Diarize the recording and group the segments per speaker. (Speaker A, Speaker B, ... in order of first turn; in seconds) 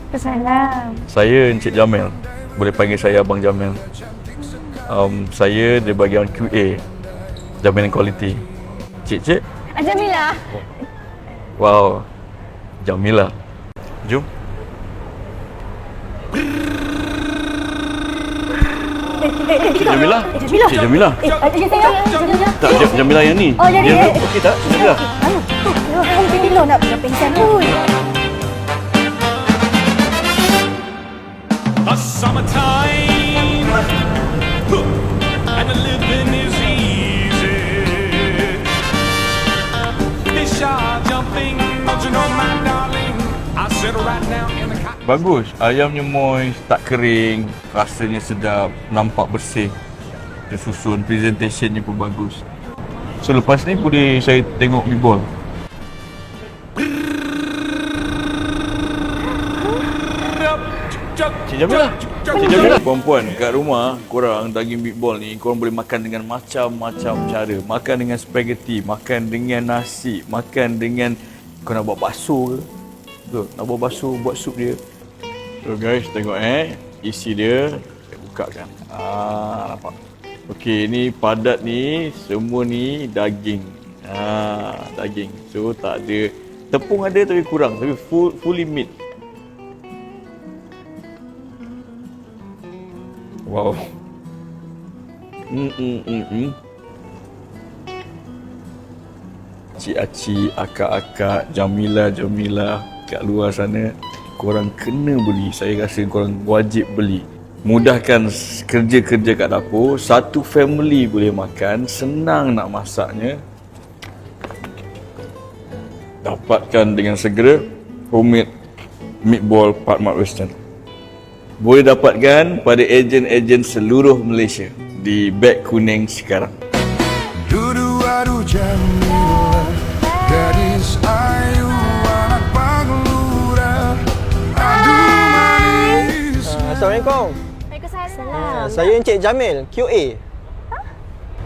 Speaker A: 0.1-1.0, 9.8-10.4, 19.2-22.9, 23.6-27.8, 138.0-138.8
Speaker B: 1.0-3.8, 4.9-6.8, 7.6-8.4, 9.1-9.4, 11.6-12.1, 12.8-13.3, 19.6-21.3, 22.5-25.1, 45.0-49.8, 50.5-52.4, 53.2-55.3, 61.4-72.7, 73.2-74.8, 75.6-80.0, 80.5-88.9, 93.5-93.8, 95.5-96.5, 99.8-113.4, 116.2-118.5, 119.2-120.5, 121.6-126.6
Speaker C: 21.7-22.4, 31.9-33.9, 35.5-38.7, 40.3-44.9
Speaker D: 127.4-136.5
Speaker E: 136.4-137.4, 138.3-140.2